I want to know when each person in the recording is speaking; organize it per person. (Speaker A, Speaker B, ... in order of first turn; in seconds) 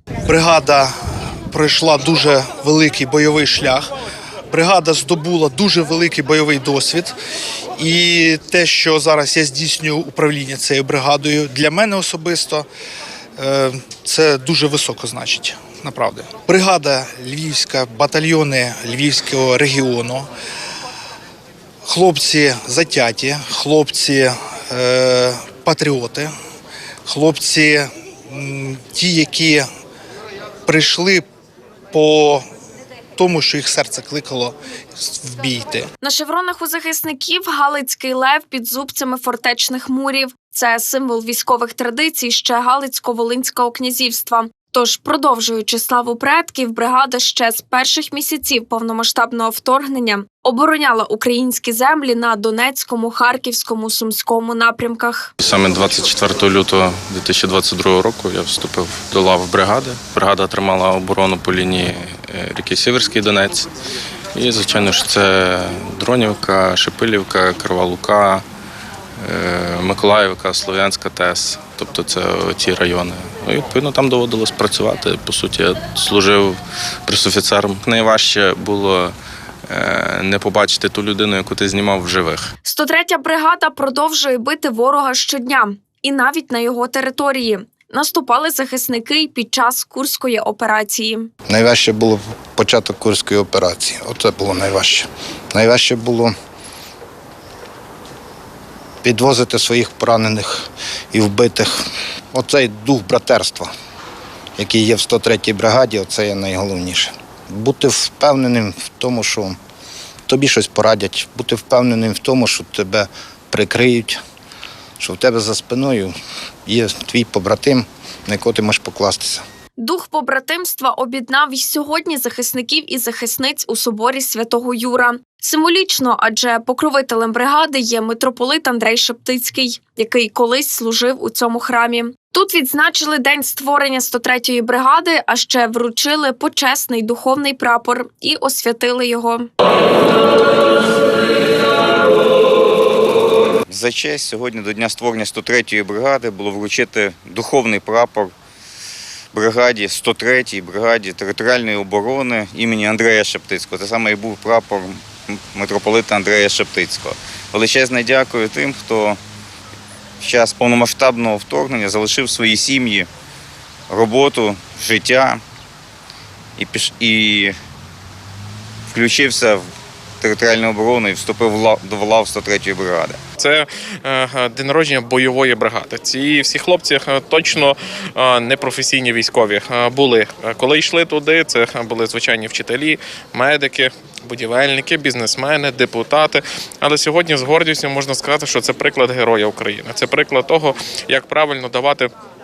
Speaker A: 0.2-0.9, 1.5-3.9, 4.5-7.1, 7.8-12.7, 13.4-20.3, 21.9-26.3, 27.1-29.6, 30.7-31.2, 31.9-32.4, 33.1-35.9
Speaker B: 36.0-55.3, 82.6-91.3, 119.8-139.5
Speaker C: 55.4-63.7, 64.3-68.4, 69.2-79.1, 79.7-82.5
Speaker D: 91.5-96.3, 99.0-101.8, 102.3-103.7, 104.6-109.6, 110.3-114.2, 115.0-116.1, 116.7-119.4
Speaker E: 143.7-148.3, 149.3-159.2, 160.2-163.1, 163.9-165.4, 166.6-167.5, 168.9-169.6, 170.2-173.2
Speaker F: 173.4-192.1